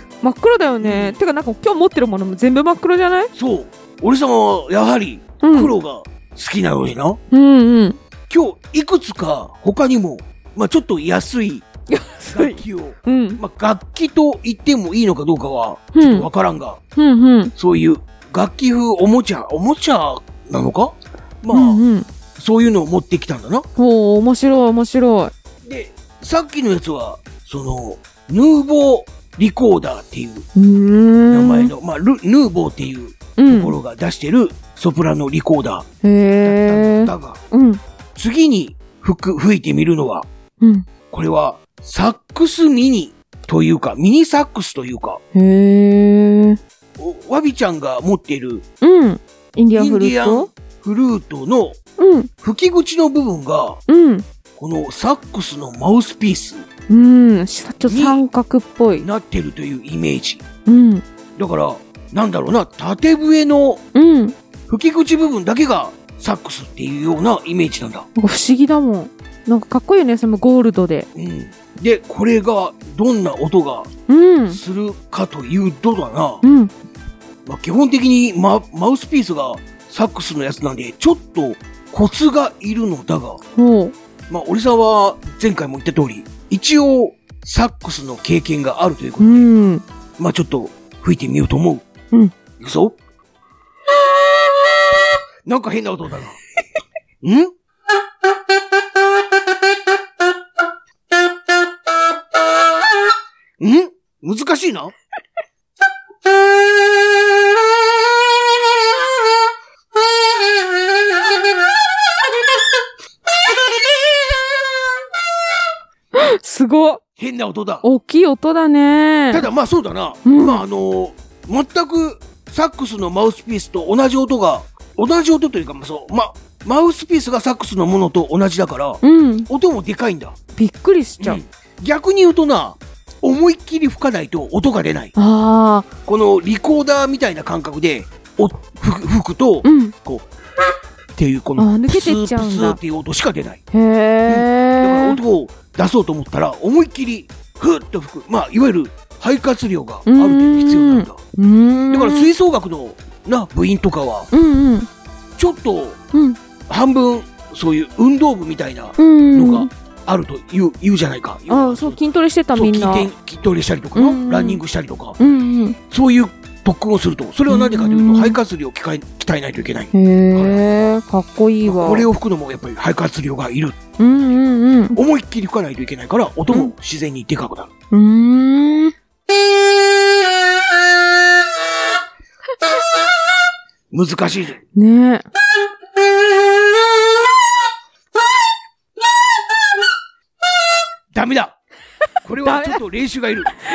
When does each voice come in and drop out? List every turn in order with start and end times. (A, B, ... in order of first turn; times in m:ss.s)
0:00.2-0:03.3 A
0:00.8-0:01.2 B
0:03.3-0:07.2 B
0:05.4-0:05.7 A
0:07.3-0:08.0 A
0:08.3-0:11.6 B
0:11.9-0:13.4 A
0:12.3-0:16.8 B
0:15.9-0:16.3 A
0:17.0-0:17.5 A
0:17.6-0:21.8 B
0:21.5-0:22.1 A
0:22.4-0:23.6 B
0:23.8-0:25.3 A
0:25.6-0:30.5 B
0:30.6-0:31.7 A
0:31.3-0:35.9 B
0:33.4-0:33.7 A
0:36.0-0:37.8 A
0:36.4-0:37.4 B
0:38.2-0:40.3 B
0:40.6-0:40.8 A
0:41.1-0:45.2 B
0:45.3-0:46.6 A
0:47.0-0:48.6 B
0:48.8-0:50.5 A
0:49.7-0:51.8 B
0:52.0-0:52.3 A
0:52.4-0:53.8 B
0:53.9-0:54.2 A
0:54.5-0:56.6 B
0:56.9-0:59.1 A
0:57.9-0:58.2 B
0:59.0-1:00.4 B
1:00.6-1:01.0 A
1:01.4-1:03.8 B
1:03.9-1:04.4 A
1:04.7-1:08.0 B
1:08.2-1:11.1 A
1:11.1-1:13.9 B
1:14.1-1:14.6 A
1:14.5-1:16.4 B
1:16.4-1:16.7 A
1:17.4-1:23.4 B
1:23.5-1:23.9 A
1:24.3-1:29.5 B
1:29.2-1:29.8 A
1:30.2-1:31.8 B
1:32.6-1:32.9 B
1:35.4-1:36.4 B
1:37.2-1:37.5 B
1:43.6-1:44.9 B
1:56.1-1:57.0 A
1:57.2-1:57.8 B
1:57.8-1:59.5 A
1:59.3-2:10.4 B
2:00.2-2:00.6 A
2:09.0-2:09.5 A
2:10.6-2:11.4 A
2:11.2-2:15.1 B
2:15.2-2:15.9 A
2:16.0-2:20.2 B
2:19.6-2:20.0 A
2:21.1-2:23.6 B
2:21.6-2:22.8 A
2:23.7-2:25.2 A
2:24.3-2:31.2 B
2:30.0-2:32.3 A
2:31.9-2:34.3 B
2:34.3-2:34.9 A
2:35.4-2:36.0 B
2:36.1-2:36.4 A
2:36.7-2:42.0 B
2:39.0-2:39.7 A
2:41.5-2:43.1 A
2:42.5-2:45.2 B
2:43.9-2:44.6 A
2:45.2-2:45.8 A
2:45.9-2:50.7 B
2:47.5-2:48.4 A
2:49.9-2:52.1 A
2:51.6-2:57.7 B
2:54.0-2:55.0 A
2:57.9-2:58.9 A
3:03.9-3:04.6 B
3:04.7-3:05.2 A
3:11.1-3:11.6 B
3:12.2-3:13.5 B
3:12.4-3:12.8 A